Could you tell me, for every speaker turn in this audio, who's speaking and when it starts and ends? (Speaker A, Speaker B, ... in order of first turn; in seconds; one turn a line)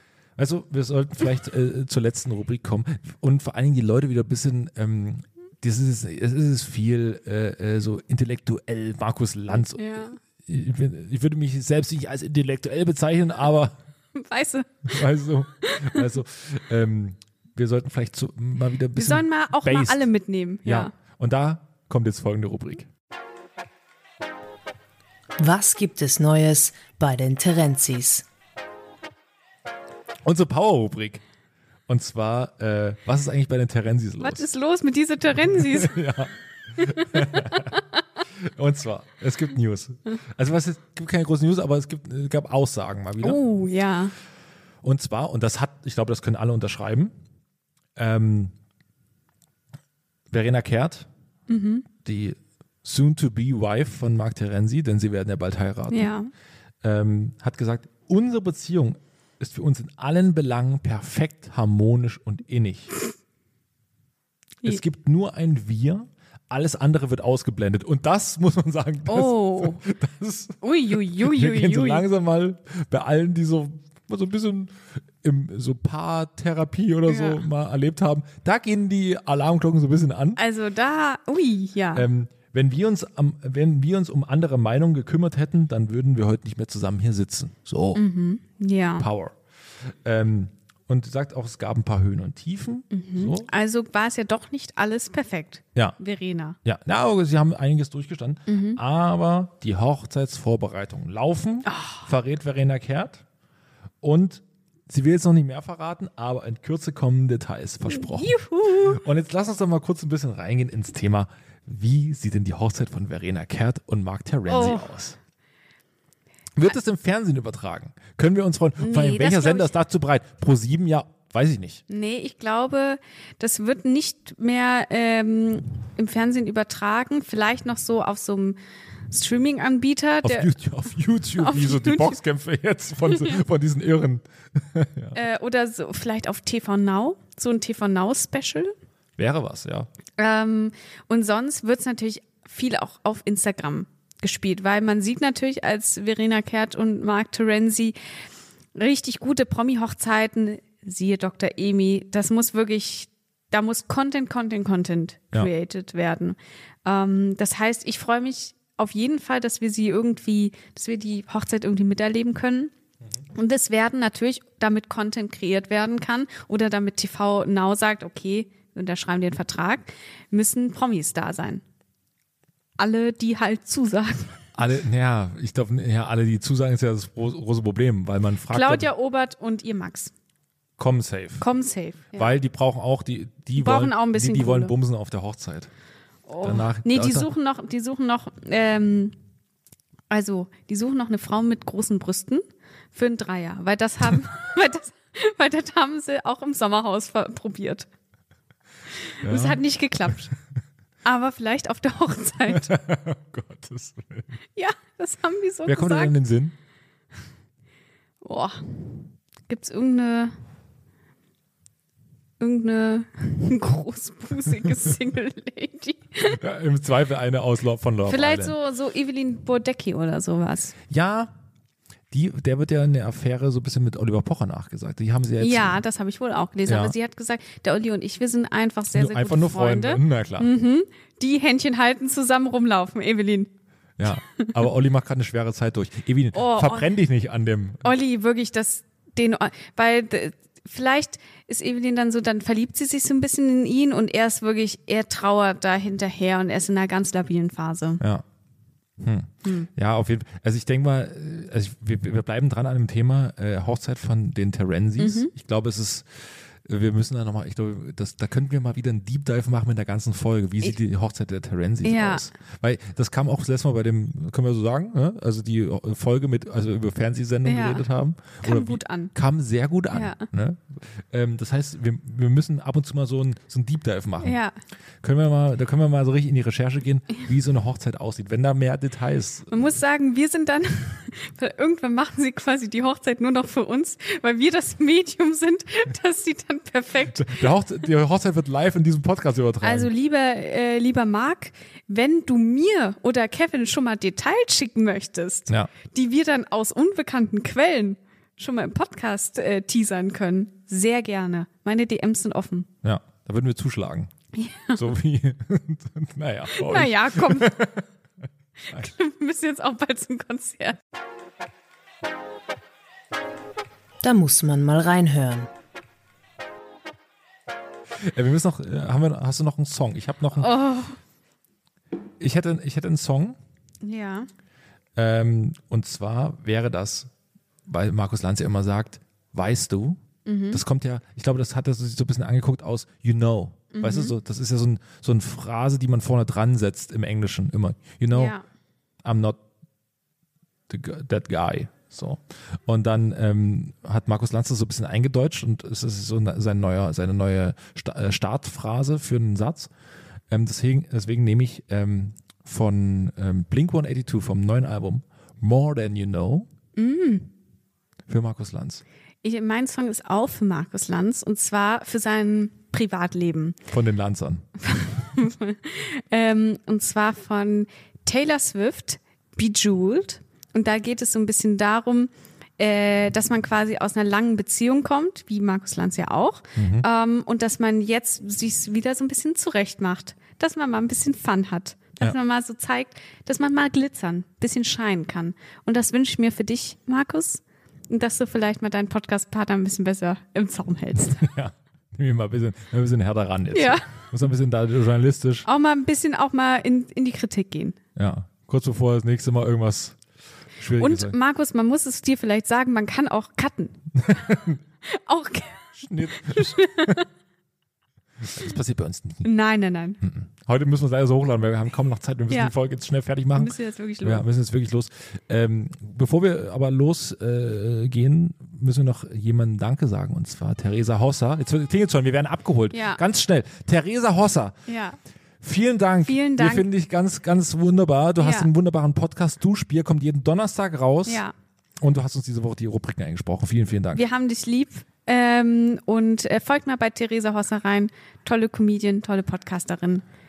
Speaker A: 0.4-9.8
Speaker B: 9.8-10.2
Speaker A: 10.4-13.8
Speaker B: 14.2-15.0
Speaker A: 14.9-20.1
Speaker B: 15.6-16.1
Speaker B: 18.9-20.9
Speaker A: 20.6-22.9
Speaker C: 25.4-28.2
Speaker A: 30.2-31.2
Speaker A: 31.9-34.5
Speaker B: 34.2-36.0
Speaker A: 35.5-37.8
Speaker B: 36.8-37.7
Speaker A: 38.4-43.4
Speaker B: 43.2-44.1
Speaker A: 44.8-47.1
Speaker A: 48.0-48.5
Speaker A: 50.3-51.1
Speaker B: 51.5-51.9
Speaker A: 52.0-56.1
Speaker B: 55.9-56.3
Speaker A: 56.8-63.0
Speaker A: 64.6-80.4
Speaker B: 69.1-69.8
Speaker B: 70.6-72.0
Speaker B: 77.1-77.4
Speaker B: 80.4-82.1
Speaker A: 81.9-88.0
Speaker B: 88.0-89.1
Speaker A: 89.0-93.5
Speaker B: 92.9-96.6
Speaker A: 96.6-103.2
Speaker B: 98.5-98.8
Speaker B: 101.7-102.0
Speaker A: 104.0-115.2
Speaker B: 107.9-109.0
Speaker B: 114.5-114.9
Speaker A: 116.6-121.8
Speaker B: 118.8-119.7
Speaker B: 121.9-128.6
Speaker B: 129.1-130.5
Speaker A: 130.2-135.2
Speaker B: 131.4-132.2
Speaker B: 133.1-133.4
Speaker B: 135.1-138.7
Speaker A: 139.2-139.9
Speaker B: 140.2-147.9
Speaker B: 148.8-162.7
Speaker B: 163.3-171.6
Speaker B: 172.8-174.4
Speaker A: 174.6-178.9
Speaker B: 178.5-180.1
Speaker A: 180.8-181.5
Speaker B: 181.4-182.3
Speaker A: 182.1-185.7
Speaker B: 183.6-184.7
Speaker B: 186.3-189.2
Speaker A: 186.4-187.3
Speaker B: 190.1-197.9
Speaker B: 199.1-200.3
Speaker A: 199.2-199.6
Speaker B: 201.0-202.8
Speaker A: 202.5-204.3
Speaker B: 204.6-206.2
Speaker A: 205.7-206.5
Speaker B: 208.2-210.3
Speaker B: 212.4-216.4
Speaker A: 216.4-218.6
Speaker B: 218.1-220.8
Speaker A: 220.9-221.3
Speaker A: 222.1-225.8
Speaker B: 225.4-233.5
Speaker A: 226.7-226.9
Speaker A: 228.9-230.5
Speaker A: 234.0-237.8
Speaker B: 234.1-234.6
Speaker B: 236.3-236.9
Speaker B: 237.8-248.0
Speaker A: 248.0-248.2
Speaker A: 249.0-274.4
Speaker B: 255.0-255.3
Speaker B: 261.8-262.3
Speaker B: 267.4-267.9
Speaker B: 268.4-269.1
Speaker B: 269.9-270.3
Speaker B: 274.2-274.6
Speaker A: 275.0-279.7
Speaker B: 279.5-287.5
Speaker A: 287.1-289.9
Speaker B: 289.6-302.7
Speaker A: 302.8-304.1
Speaker B: 304.3-304.9
Speaker A: 304.7-307.9
Speaker B: 306.5-307.6
Speaker B: 308.7-310.8
Speaker C: 314.0-315.5
Speaker A: 318.0-320.6
Speaker B: 320.4-321.0
Speaker A: 322.2-323.4
Speaker B: 323.8-324.3
Speaker A: 325.0-327.1
Speaker A: 327.7-330.0
Speaker B: 330.3-330.6
Speaker A: 330.5-338.4
Speaker B: 333.7-334.1
Speaker B: 338.1-338.4
Speaker A: 339.0-339.4
Speaker A: 340.7-349.7
Speaker A: 350.3-356.5
Speaker B: 356.8-357.3
Speaker A: 358.1-358.8
Speaker B: 359.2-363.6
Speaker A: 363.7-364.5
Speaker B: 364.6-391.3
Speaker A: 376.6-376.9
Speaker A: 391.2-395.5
Speaker B: 393.5-393.9
Speaker B: 395.5-397.8
Speaker A: 398.0-400.0
Speaker A: 400.6-401.2
Speaker B: 400.8-403.8
Speaker A: 404.0-404.6
Speaker B: 404.9-407.1
Speaker A: 405.8-407.0
Speaker A: 408.2-409.3
Speaker B: 409.2-410.0
Speaker A: 410.0-424.6
Speaker B: 413.4-414.3
Speaker B: 422.7-423.0
Speaker B: 424.7-425.0
Speaker A: 425.4-431.2
Speaker B: 426.0-426.7
Speaker B: 428.2-428.5
Speaker B: 431.1-431.3
Speaker A: 431.8-434.0
Speaker B: 433.9-440.0